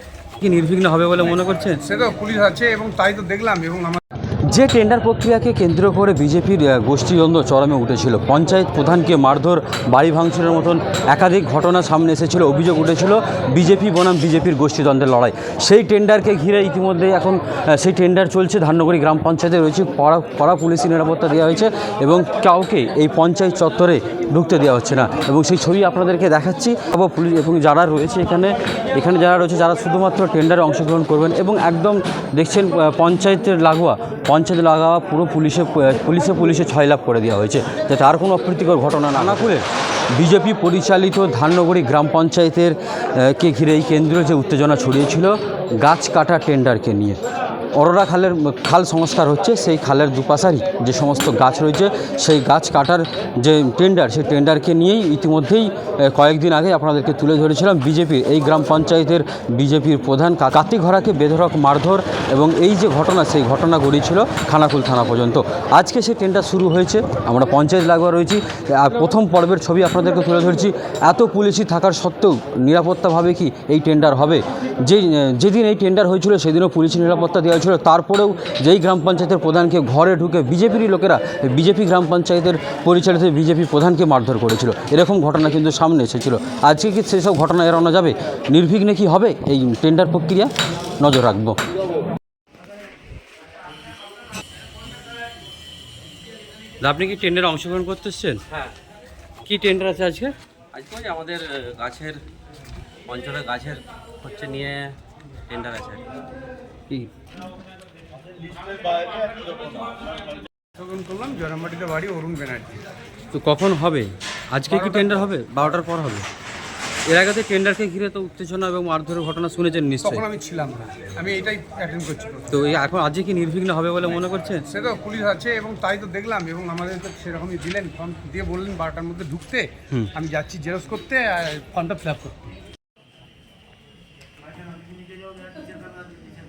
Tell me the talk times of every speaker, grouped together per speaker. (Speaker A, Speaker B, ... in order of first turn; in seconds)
Speaker A: 0.4-1.8, 4.5-47.2, 47.7-91.6, 96.8-98.6, 99.5-100.3, 113.3-116.3, 117.1-120.2, 122.5-124.7
Speaker B: 1.8-4.0, 110.8-112.8, 114.7-115.1, 120.0-122.5, 124.7-132.4
Speaker C: 100.7-102.2, 103.1-104.9, 105.5-106.0